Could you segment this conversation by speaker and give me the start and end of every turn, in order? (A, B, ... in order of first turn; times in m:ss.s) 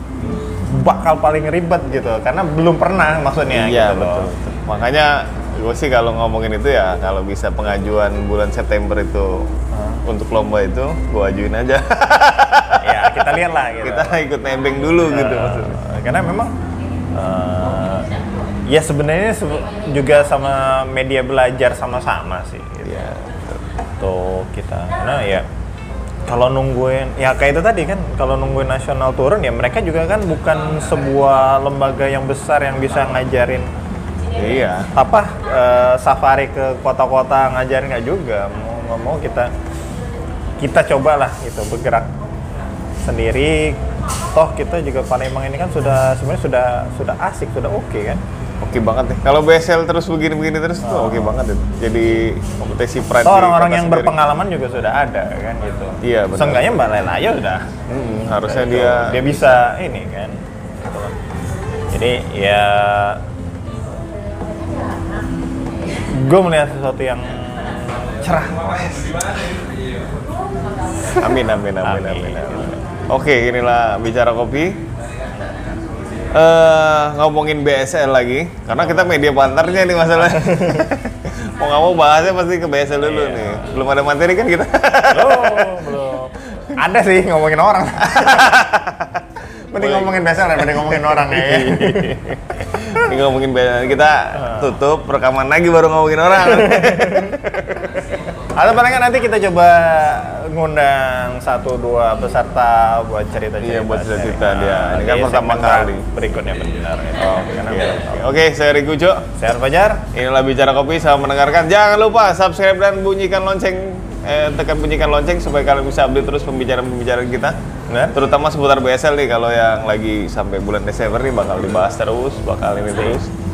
0:00.4-0:04.3 A
0:03.5-0:09.5 B
0:09.7-0:10.0 A
0:10.0-0:13.3 B
0:12.8-0:14.1 A
0:13.8-0:15.8 B
0:15.0-0:16.5 A
0:17.1-0:18.1 A
0:18.7-0:23.2 A
0:22.8-0:23.6 B
0:24.0-0:25.4 A
0:26.3-0:33.7 A
0:34.3-0:34.9 B
0:34.9-0:39.5 A
0:40.6-0:42.1 A
0:43.0-0:43.8 A
0:44.3-0:48.2 A
0:48.6-0:54.1 B
0:50.8-0:51.4 A
0:53.2-0:57.7 A
0:56.0-0:56.7 B
0:57.9-0:59.7 B
0:58.3-1:01.2 A
1:01.9-1:03.2 A
1:05.8-1:09.6 A
1:11.1-1:14.8 B
1:11.8-1:12.8 A
1:16.3-1:26.7 B
1:18.8-1:19.1 A
1:20.2-1:20.9 A
1:23.0-1:23.6 A
1:25.1-1:29.1 A
1:28.1-1:29.1 B
1:29.7-1:32.2 A
1:29.7-1:38.0 B
1:34.3-1:34.8 A
1:36.4-1:37.4 A
1:38.6-1:48.3 A
1:43.6-1:46.0 B
1:47.6-1:49.3 B
1:49.4-1:50.0 A
1:50.1-1:57.6 B
1:57.9-1:58.2 A
1:58.1-2:03.3 B